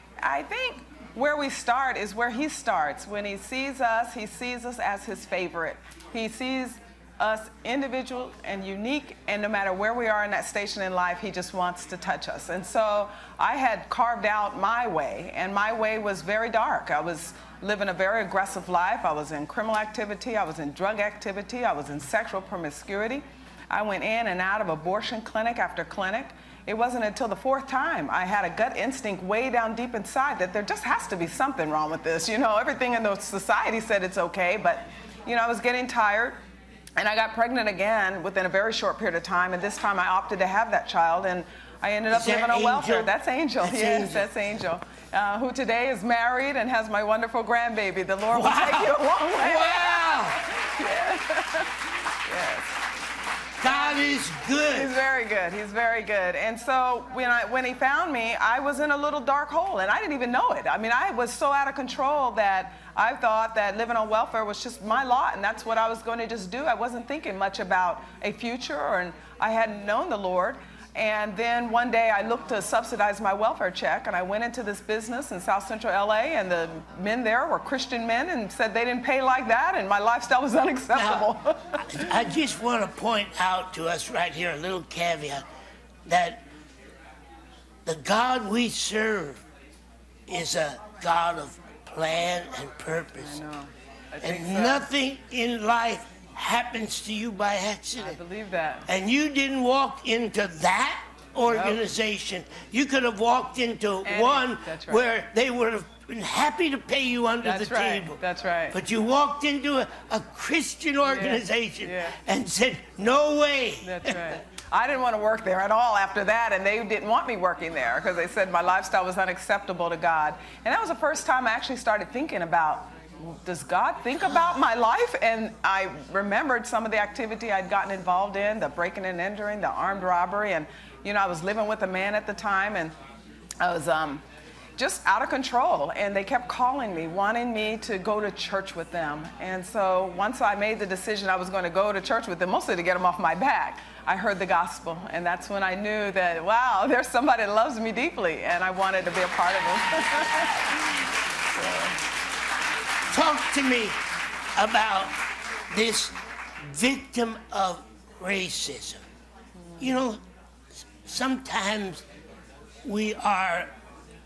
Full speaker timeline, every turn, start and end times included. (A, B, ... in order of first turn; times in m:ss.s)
0:00.2-0:36.4 A
0:37.0-0:51.7 A
0:42.1-0:43.1 B
0:43.6-0:44.3 B
0:48.3-0:50.4 B
0:52.3-0:52.8 A
0:53.6-0:54.9 B
0:53.6-0:54.0 A
0:54.7-1:22.2 A
1:20.9-1:21.3 B
1:21.8-1:25.4 B
1:26.0-1:26.4 B
1:27.8-1:29.4 B
1:30.3-1:33.4 B
1:33.2-1:34.9 A
1:34.2-1:38.2 B
1:38.0-1:38.9 A
1:38.9-1:48.2 B
1:41.4-1:41.8 A
1:44.0-1:45.1 A
1:47.4-1:48.8 A
1:48.7-1:54.4 B
1:51.0-1:52.2 A
1:53.8-2:12.9 A
2:13.6-2:14.2 A
2:14.8-2:30.7 A
2:31.6-2:32.0 B
2:33.1-2:34.0 B
2:34.6-2:35.2 B
2:35.7-2:39.0 B
2:39.8-2:40.2 B
2:40.8-2:42.0 B
2:42.8-2:43.7 B